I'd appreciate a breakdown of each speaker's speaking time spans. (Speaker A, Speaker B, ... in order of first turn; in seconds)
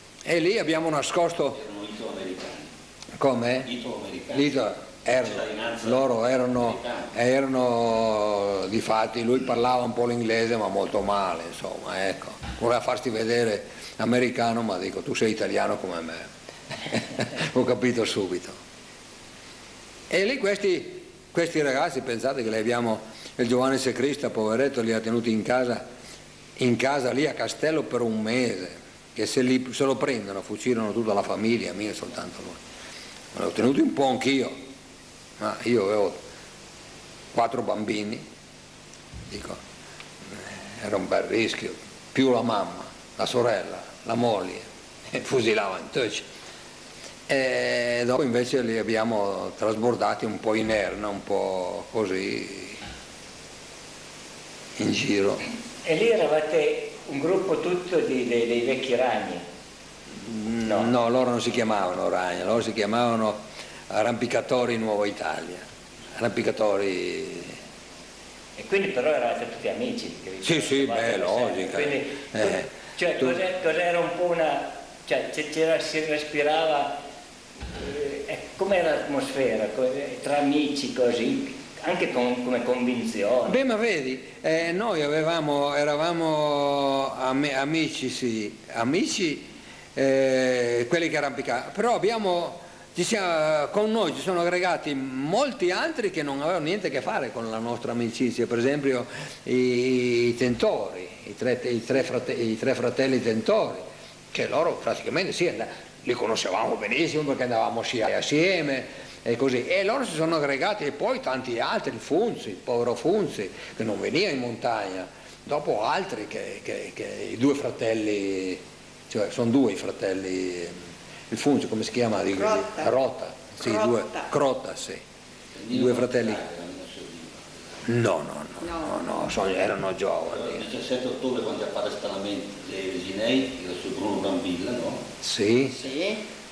Speaker A: 0.2-1.6, 3.2-3.7, 4.3-16.3, 16.9-18.6, 20.1-25.8, 26.6-32.6, 33.3-34.5, 35.4-36.2, 37.3-38.2, 39.3-39.6, 40.3-46.2, 47.3-52.8, 54.8-55.4, 60.2-63.4, 63.9-67.6, 70.4-73.3, 83.5-120.7, 121.3-125.0, 125.7-126.4, 127.8-130.7, 135.2-135.8
Speaker B: 1.5-2.7, 3.6-4.5, 5.1-6.0, 6.6-7.1, 125.5-127.7, 130.3-135.0
Speaker C: 55.8-59.4, 68.5-77.0, 77.7-83.6
Speaker D: 122.3-122.9, 123.6-124.3, 128.6-129.2, 135.7-136.2